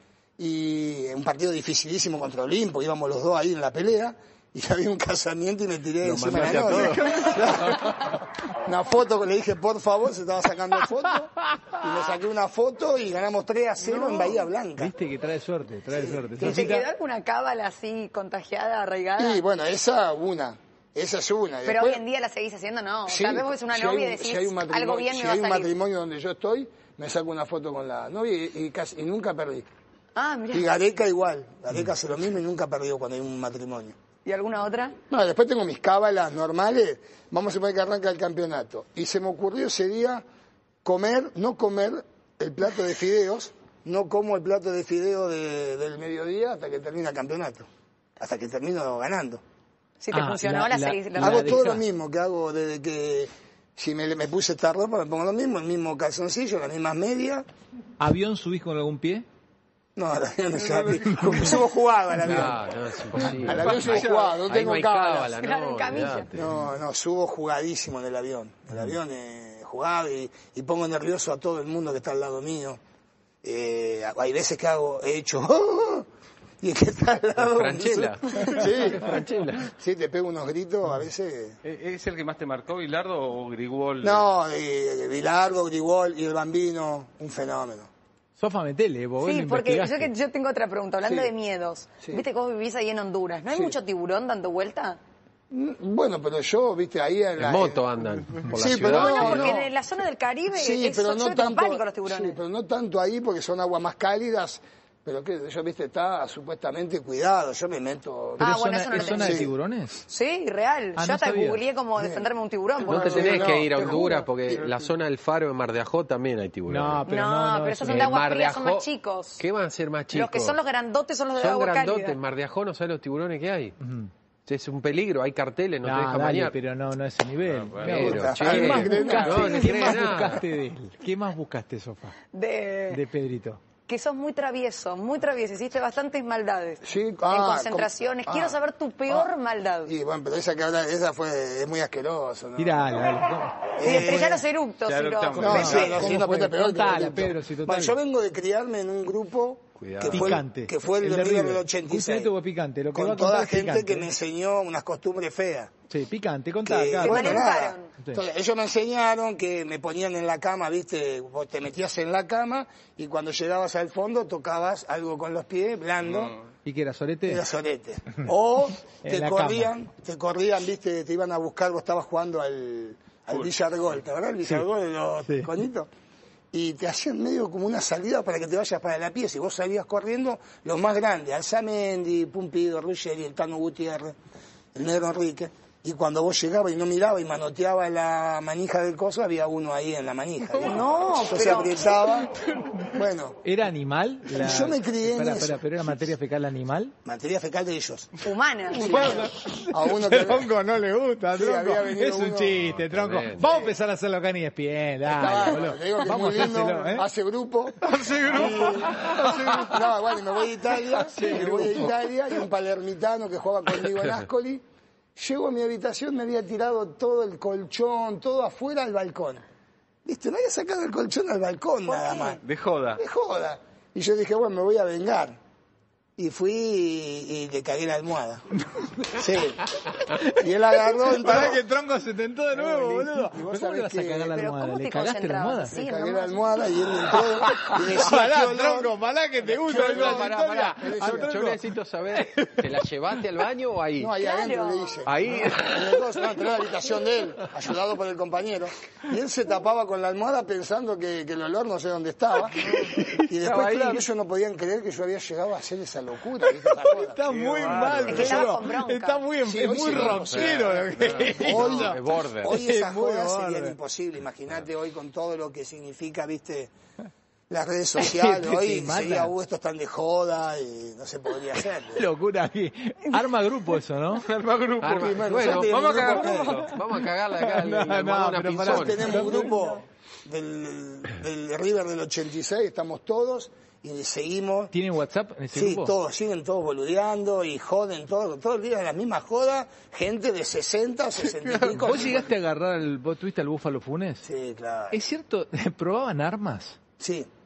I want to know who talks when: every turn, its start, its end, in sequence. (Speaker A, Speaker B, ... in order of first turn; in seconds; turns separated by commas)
Speaker A: 0.4-14.9, Speaker B: 6.0-7.9, Speaker C: 14.0-14.3, Speaker D: 14.8-16.9, Speaker A: 15.9-16.7, Speaker C: 16.4-19.4, Speaker A: 19.2-22.0, Speaker C: 21.6-25.7, Speaker A: 23.1-29.6, Speaker C: 30.1-30.7, Speaker A: 30.5-34.0, Speaker C: 34.2-35.0, Speaker A: 35.1-40.2, Speaker A: 40.8-47.7, Speaker A: 48.2-49.4, Speaker C: 50.0-51.7, Speaker D: 50.1-51.8, Speaker A: 51.2-57.5, Speaker D: 58.0-59.2, Speaker A: 60.0-65.3, Speaker D: 61.1-61.5, Speaker B: 62.2-66.5, Speaker E: 63.8-64.2, Speaker C: 65.4-66.3, Speaker A: 66.3-72.8, Speaker A: 73.4-76.1, Speaker A: 76.6-81.6, Speaker B: 77.5-79.7, Speaker E: 81.6-84.2, Speaker A: 84.0-87.9, Speaker D: 88.4-90.1, Speaker C: 89.2-95.0, Speaker A: 91.0-91.3, Speaker A: 93.5-93.8, Speaker A: 95.5-99.7, Speaker B: 97.4-99.5, Speaker C: 98.7-102.4, Speaker A: 100.5-109.5, Speaker C: 108.4-109.5, Speaker D: 108.4-110.0, Speaker C: 110.0-113.6, Speaker D: 111.0-111.6, Speaker A: 112.0-112.3, Speaker A: 112.8-114.7, Speaker B: 112.9-117.0, Speaker D: 116.7-118.2, Speaker C: 117.0-119.4, Speaker B: 117.9-118.9, Speaker B: 119.4-120.6, Speaker C: 120.1-122.2, Speaker B: 121.4-123.7, Speaker D: 123.8-124.1, Speaker B: 124.5-126.5, Speaker D: 125.8-132.2, Speaker E: 127.5-128.1, Speaker B: 127.8-130.4, Speaker A: 127.8-130.0, Speaker C: 132.3-133.0, Speaker D: 132.9-133.6, Speaker C: 133.9-139.9, Speaker A: 136.8-139.3, Speaker A: 139.8-143.1, Speaker D: 142.6-143.8, Speaker A: 143.8-144.4, Speaker C: 143.8-145.9, Speaker E: 144.8-146.2, Speaker D: 145.4-148.0, Speaker A: 145.4-152.3, Speaker B: 149.8-150.4, Speaker D: 150.1-154.1, Speaker A: 152.9-155.7, Speaker D: 155.9-157.5, Speaker A: 156.6-166.3, Speaker C: 157.0-157.9, Speaker E: 166.1-166.4, Speaker D: 166.6-167.4, Speaker A: 167.3-175.9, Speaker D: 169.0-169.7, Speaker A: 176.5-184.1, Speaker A: 184.7-193.4, Speaker C: 190.6-191.9, Speaker D: 193.4-196.9, Speaker A: 194.3-196.1, Speaker A: 197.0-198.2, Speaker C: 198.2-199.2, Speaker A: 198.7-200.5, Speaker D: 198.8-207.1, Speaker A: 201.3-202.6, Speaker B: 202.7-203.6, Speaker A: 203.4-203.7, Speaker A: 205.1-214.6, Speaker E: 207.9-208.9, Speaker D: 208.0-209.7, Speaker D: 211.1-211.9, Speaker B: 211.2-211.7, Speaker A: 215.2-219.4, Speaker A: 220.0-222.4, Speaker C: 221.9-222.4, Speaker E: 222.4-223.0, Speaker A: 223.0-225.4, Speaker A: 226.2-228.4, Speaker A: 229.0-229.7, Speaker A: 230.2-231.6, Speaker D: 230.8-235.8, Speaker A: 232.5-234.4, Speaker C: 234.3-236.4, Speaker A: 235.7-241.4, Speaker D: 237.1-241.6, Speaker B: 239.7-244.1, Speaker D: 242.1-242.8, Speaker A: 244.0-258.5, Speaker C: 244.2-244.9, Speaker B: 245.1-246.1, Speaker D: 252.6-254.0, Speaker D: 256.4-263.8, Speaker E: 257.3-258.4, Speaker C: 258.1-259.2, Speaker A: 259.4-266.7, Speaker B: 260.1-262.6, Speaker A: 267.5-272.0, Speaker D: 268.0-269.3, Speaker D: 271.9-274.3, Speaker E: 274.1-276.7, Speaker B: 274.8-279.3, Speaker A: 274.8-276.6, Speaker D: 277.4-279.6, Speaker A: 278.6-284.7, Speaker D: 284.7-285.9, Speaker A: 285.5-292.3, Speaker D: 291.6-294.3, Speaker A: 294.2-295.0, Speaker D: 294.9-296.8, Speaker A: 297.0-297.3